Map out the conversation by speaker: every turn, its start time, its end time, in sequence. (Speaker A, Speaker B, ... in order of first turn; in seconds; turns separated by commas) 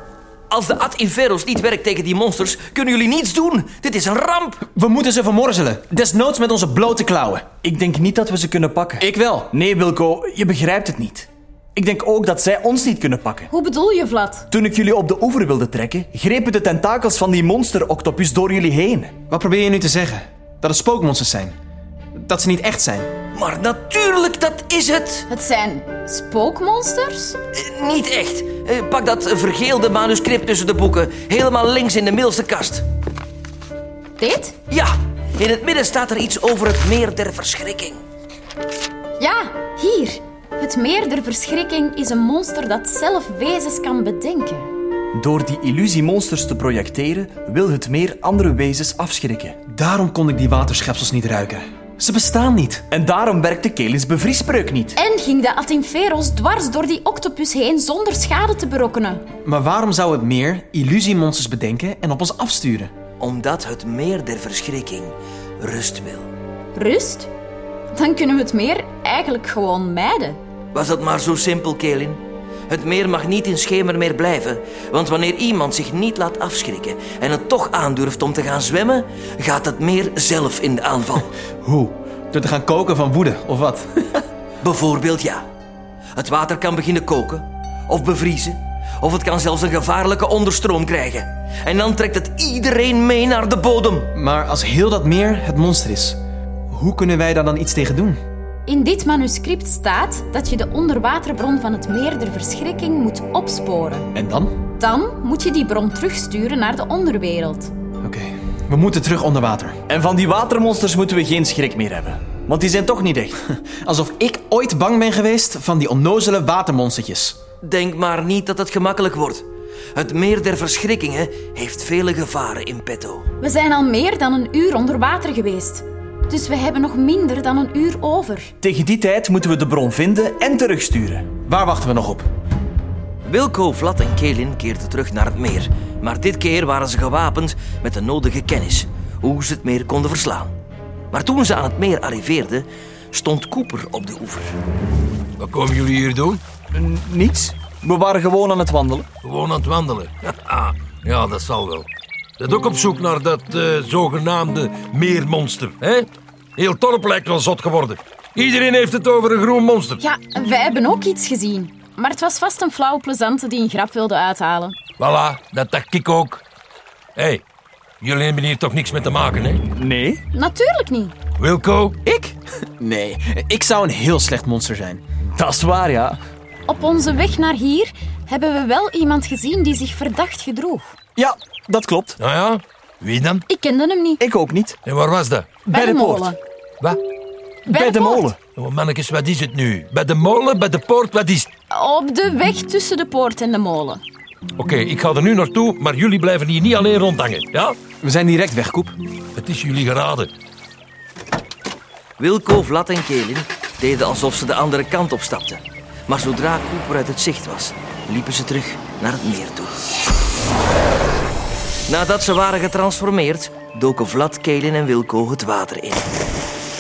Speaker A: 0.5-4.7, Speaker B: 4.8-7.5, Speaker C: 7.6-13.5, Speaker B: 9.0-9.5, Speaker D: 13.5-14.5, Speaker C: 14.5-19.1, Speaker B: 19.3-21.6, Speaker B: 22.2-23.1, Speaker A: 23.4-25.3, Speaker D: 25.3-27.4, Speaker A: 27.5-32.9, Speaker D: 34.2-34.5, Speaker A: 34.7-38.0, Speaker D: 39.2-44.7, Speaker C: 45.1-49.6, Speaker B: 49.7-52.9, Speaker C: 52.9-55.0, Speaker D: 55.0-59.2, Speaker B: 59.5-62.9, Speaker A: 63.2-66.3, Speaker D: 66.8-67.3, Speaker D: 67.9-70.4, Speaker A: 70.7-81.3, Speaker B: 81.6-84.2, Speaker A: 84.6-85.4, Speaker A: 86.2-94.1, Speaker B: 94.2-96.2, Speaker B: 96.7-98.2, Speaker D: 98.7-104.1, Speaker B: 104.1-104.6, Speaker D: 104.8-107.7, Speaker B: 108.0-109.8, Speaker C: 109.9-113.4, Speaker B: 113.7-117.4, Speaker A: 117.6-119.4, Speaker A: 120.0-123.2, Speaker D: 123.4-128.5, Speaker C: 128.6-131.3, Speaker B: 131.5-132.3, Speaker A: 133.2-140.5, Speaker A: 141.1-144.6, Speaker E: 145.4-146.4, Speaker C: 146.7-149.1, Speaker E: 149.2-151.9, Speaker E: 152.4-160.0, Speaker D: 160.0-164.8, Speaker E: 165.0-166.4, Speaker E: 167.2-167.4, Speaker E: 168.0-169.6, Speaker C: 169.7-170.2, Speaker D: 170.3-171.2, Speaker E: 171.4-172.0, Speaker C: 172.1-172.3, Speaker B: 172.8-175.0, Speaker C: 175.4-176.2, Speaker D: 176.7-180.9, Speaker C: 181.2-182.2, Speaker E: 182.2-183.4, Speaker D: 183.5-184.2, Speaker C: 184.2-184.8, Speaker E: 184.8-185.6, Speaker D: 185.7-186.4, Speaker B: 185.7-186.3, Speaker C: 187.7-188.4, Speaker D: 187.7-188.3, Speaker E: 188.5-191.5, Speaker D: 191.7-194.0, Speaker E: 194.6-197.8, Speaker B: 198.0-198.9, Speaker E: 199.4-200.3, Speaker A: 202.2-209.8, Speaker A: 211.9-216.1